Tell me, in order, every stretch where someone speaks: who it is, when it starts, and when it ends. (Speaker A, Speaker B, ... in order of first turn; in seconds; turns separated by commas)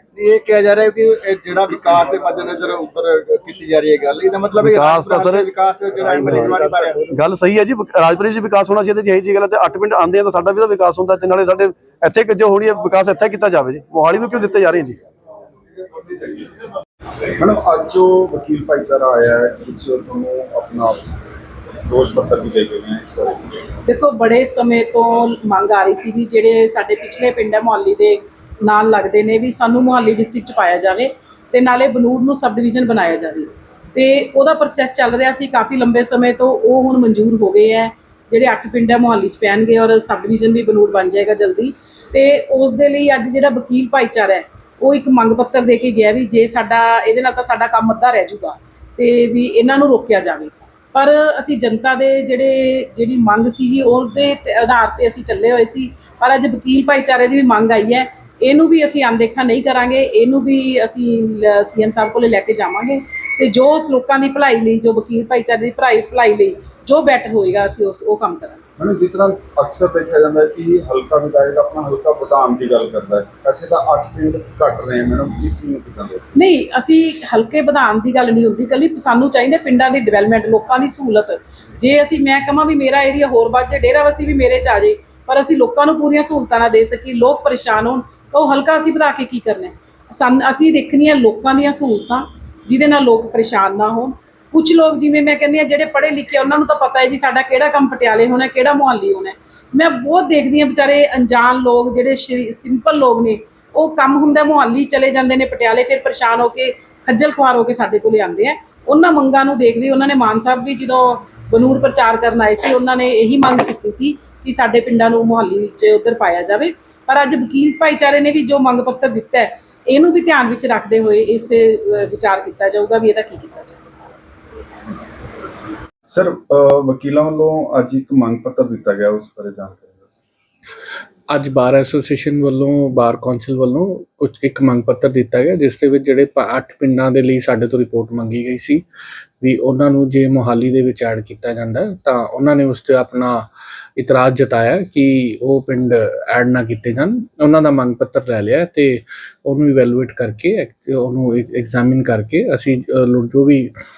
Speaker A: 0.1-7.1, Speaker B: 4.6-5.5, Speaker B: 6.3-6.5, Speaker B: 7.1-15.0, Speaker C: 16.1-16.5, Speaker C: 17.4-21.2, Speaker C: 21.9-23.6, Speaker D: 23.8-68.6, Speaker C: 68.8-76.3, Speaker D: 76.3-123.8, Speaker C: 126.1-130.2, Speaker E: 131.3-138.8, Speaker E: 139.4-153.7